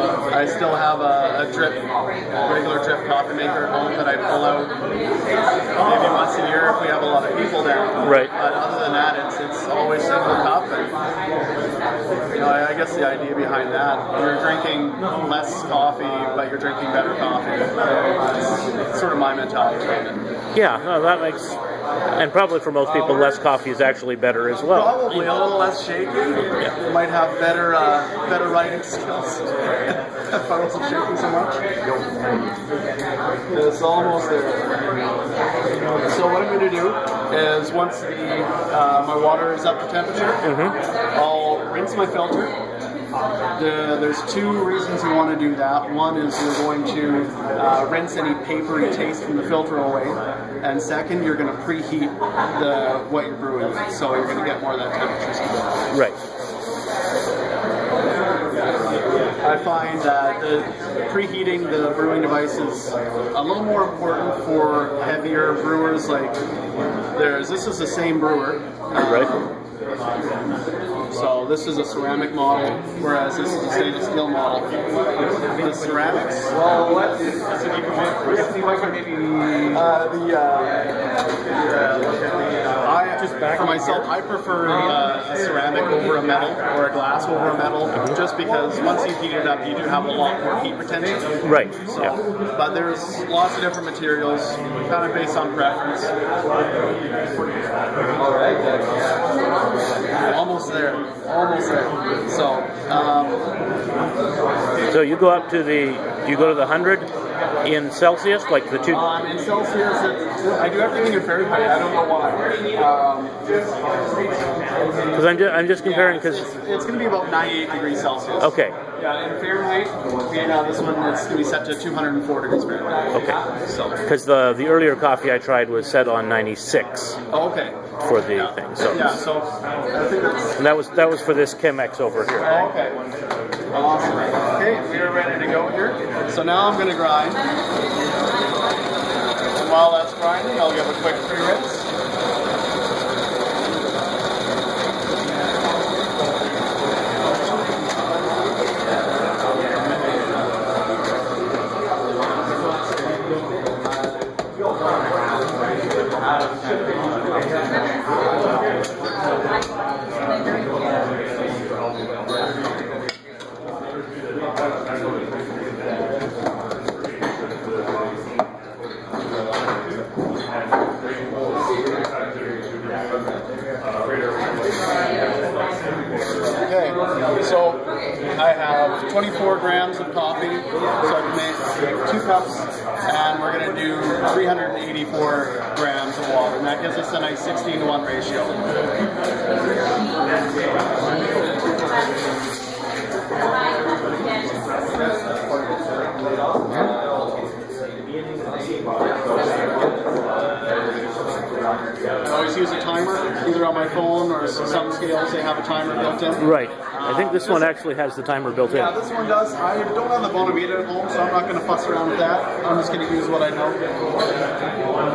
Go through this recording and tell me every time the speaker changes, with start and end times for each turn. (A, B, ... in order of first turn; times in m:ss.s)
0:00.3-0:01.8 A
0:02.4-0:04.7 A
0:05.8-0:10.9 A
0:08.0-0:08.3 B
0:12.3-0:20.2 A
0:20.5-0:21.6 B
0:22.2-0:25.4 B
0:22.9-0:23.3 A
0:24.7-0:29.5 A
0:30.3-0:31.6 A
0:33.5-0:34.7 A
0:36.1-0:40.5 A
0:40.4-0:40.8 B
0:41.1-0:42.6 A
0:43.6-0:55.7 A
0:59.4-1:06.4 A
1:07.2-1:09.5 A
1:09.0-1:09.3 B
1:11.1-1:14.8 A
1:15.6-1:19.0 A
1:19.7-1:20.8 A
1:22.8-1:36.1 A
1:23.2-1:24.1 B
1:31.4-1:32.2 B
1:40.2-1:43.4 A
1:44.9-1:47.1 B
1:47.6-1:49.0 B
1:48.9-1:53.4 A
1:55.1-1:56.5 B
1:55.8-2:04.0 A
1:58.4-1:58.8 B
2:03.1-2:03.4 B
2:04.1-2:07.2 B
2:07.3-2:10.6 A
2:08.0-2:09.2 B
2:10.6-2:12.6 B
2:12.4-2:13.0 A
2:13.7-2:17.4 A
2:19.6-2:21.9 A
2:56.6-3:08.6 A
3:22.2-3:27.8 A
3:26.4-3:28.9 B
3:28.7-3:33.8 A